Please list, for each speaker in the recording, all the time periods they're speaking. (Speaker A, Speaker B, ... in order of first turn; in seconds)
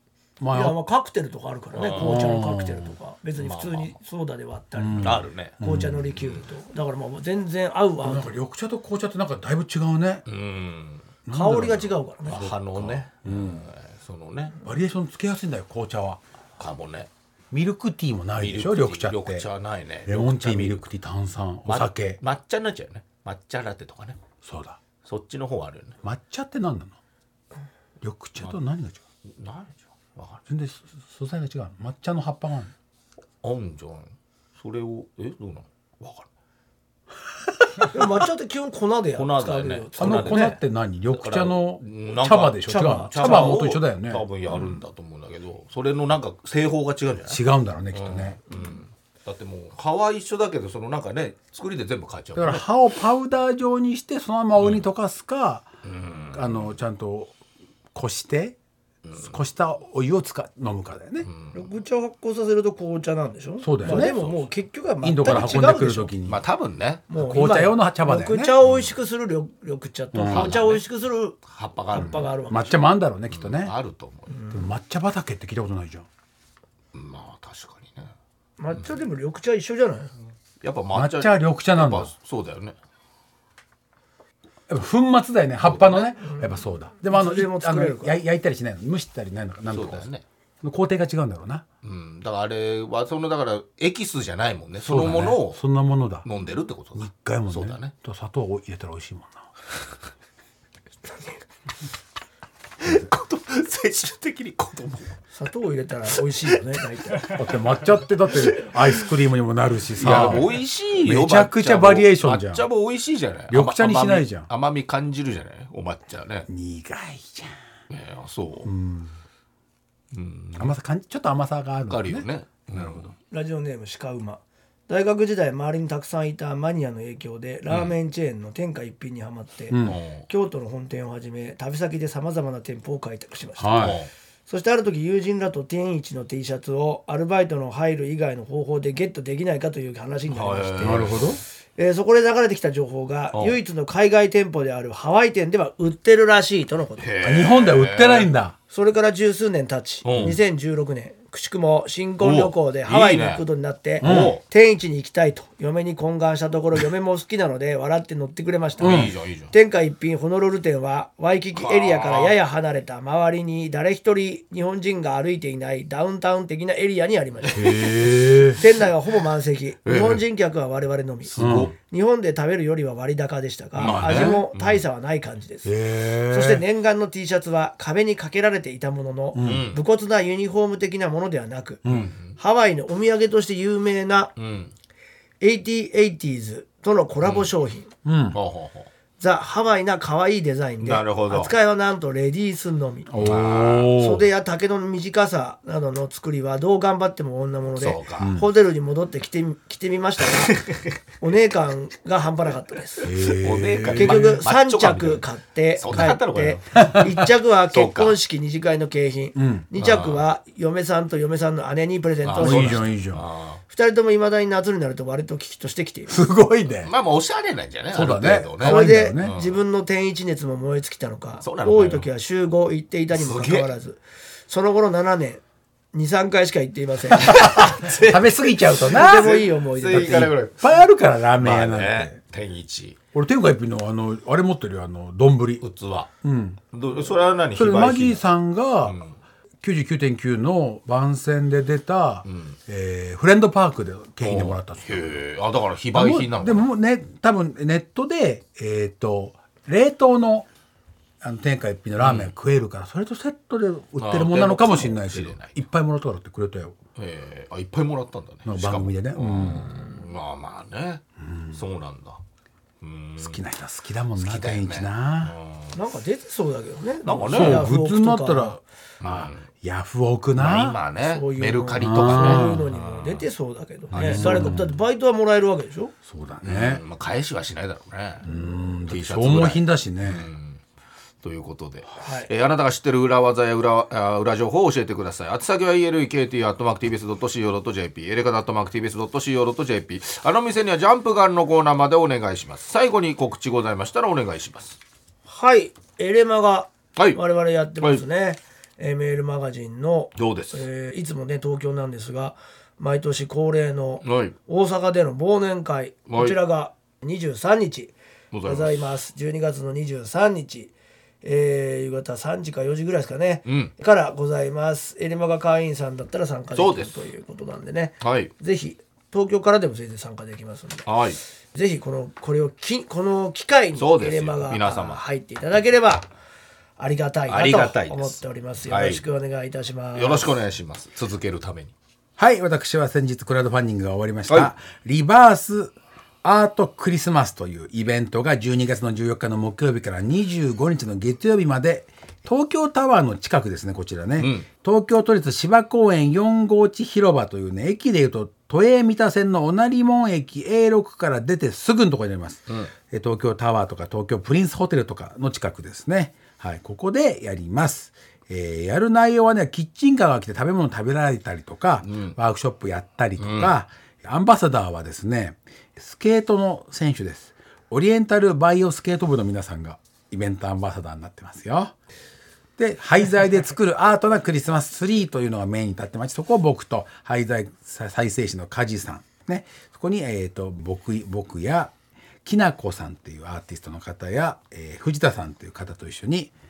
Speaker A: 0.4-0.8, 1.9-2.9, 4.8-6.2, 8.0-10.2, 11.2-13.7, 14.6-16.2, 17.5-19.5, 20.1-22.2, 24.4-24.8, 26.0-26.9, 28.0-29.0, 30.5-32.7, 40.0-44.2, 47.3-48.4, 52.4-55.7, 56.3-57.3, 57.9-58.5, 59.2-61.3, 63.6-64.2, 65.0-66.4, 67.2-68.5, 70.1-70.6, 71.9-73.7, 74.5-76.1, 80.9-82.1, 84.7-90.1, 90.6-91.6, 94.8-96.2, 97.0-99.5, 107.3-112.7, 113.5-114.5, 116.5-117.6, 118.6-119.1, 120.6-123.1, 129.7-130.0, 133.6-134.0, 140.8-141.4, 147.2-148.6, 154.0-154.4, 158.8-159.1, 167.5-168.6, 171.4-171.7, 173.8-174.4, 175.6-176.6, 179.3-179.7, 181.8-182.1, 188.0-188.4, 193.1-194.2, 198.2-198.4, 203.0-204.4, 206.7-207.1, 209.3-209.7, 212.3-213.2, 216.1-216.9, 217.9-219.3, 227.2-229.4, 229.9-232.2, 233.1-235.6, 236.2-236.6, 237.5-239.0, 239.6-245.2, 245.9-250.5, 251.2-256.8, 258.4-259.7, 261.2-261.6, 263.2-265.3, 267.3-270.8, 271.8-272.6, 273.9-274.8, 276.1-276.8, 278.2-280.3, 332.2-371.7, 372.6-381.7, 382.2-386.3
Speaker B: 0.5-8.3, 11.3-12.5, 37.9-40.6, 42.6-43.5, 61.5-66.1, 67.1-71.4, 71.9-72.7, 74.3-74.7, 78.6-80.1, 86.2-88.2, 105.3-107.3, 123.3-147.1, 148.7-168.0, 168.6-175.7, 176.3-181.8, 182.4-184.3, 185.4-187.9, 189.2-193.2, 193.9-200.6, 201.2-212.9, 213.7-216.2, 218.6-225.4, 225.9-227.7, 228.9-230.3, 265.7-268.6, 271.1-275.9, 282.0-282.3, 295.3-307.9, 308.4-310.7, 311.2-320.9, 321.5-326.1, 326.8-330.3
Speaker C: 1.7-2.2, 3.4-4.0, 5.0-5.6, 6.1-6.4, 10.3-11.1, 12.2-14.6, 16.6-17.1, 18.4-20.8, 21.6-24.2, 25.0-25.9, 29.3-30.4, 33.4-36.3, 39.1-40.6, 41.1-47.4, 47.9-52.6, 55.8-56.7, 59.0-59.3, 61.2-61.6, 63.8-64.5, 65.3-67.1, 68.6-68.9, 70.3-70.8, 71.4-72.3, 73.3-74.3, 76.9-78.1, 80.6-82.7, 85.6-86.1, 89.7-90.2, 91.8-95.6, 96.2-97.9, 102.8-105.1, 107.1-107.4, 108.3-109.1, 110.0-116.5, 117.9-118.7, 120.1-120.7, 121.9-123.1, 129.8-130.3, 133.8-134.1, 140.3-141.3, 143.3-143.6, 147.0-148.3, 150.0-150.3, 152.2-153.4, 154.0-154.4, 158.8-159.5, 161.5-162.4, 167.5-168.6, 169.8-170.2, 171.2-171.7, 173.8-174.8, 179.4-179.8, 181.8-182.3, 184.4-184.7, 187.2-187.5, 188.3-188.9, 190.8-191.5, 193.2-194.0, 197.7-198.4, 200.4-200.8, 203.1-208.2, 209.8-210.2, 212.2-213.6, 216.8-219.6, 221.4-222.1, 223.1-223.7, 227.2-230.8, 231.4-233.0, 235.6-236.1, 236.7-238.2, 238.8-239.2, 242.2-242.6, 244.2-246.7, 252.0-252.3, 254.0-255.6, 256.9-262.2, 262.8-263.4, 264.2-265.8, 267.0-267.7, 269.0-269.5, 270.4-273.3, 273.9-274.6, 276.4-278.3, 278.9-280.6, 281.2-294.8, 300.1-300.6, 304.0-304.3, 306.1-306.4, 308.3-308.8, 313.4-313.7, 316.5-317.0, 318.0-318.3, 320.9-321.2, 323.8-325.0, 327.3-329.1, 329.9-331.7, 344.2-344.5, 361.8-362.1, 363.2-363.5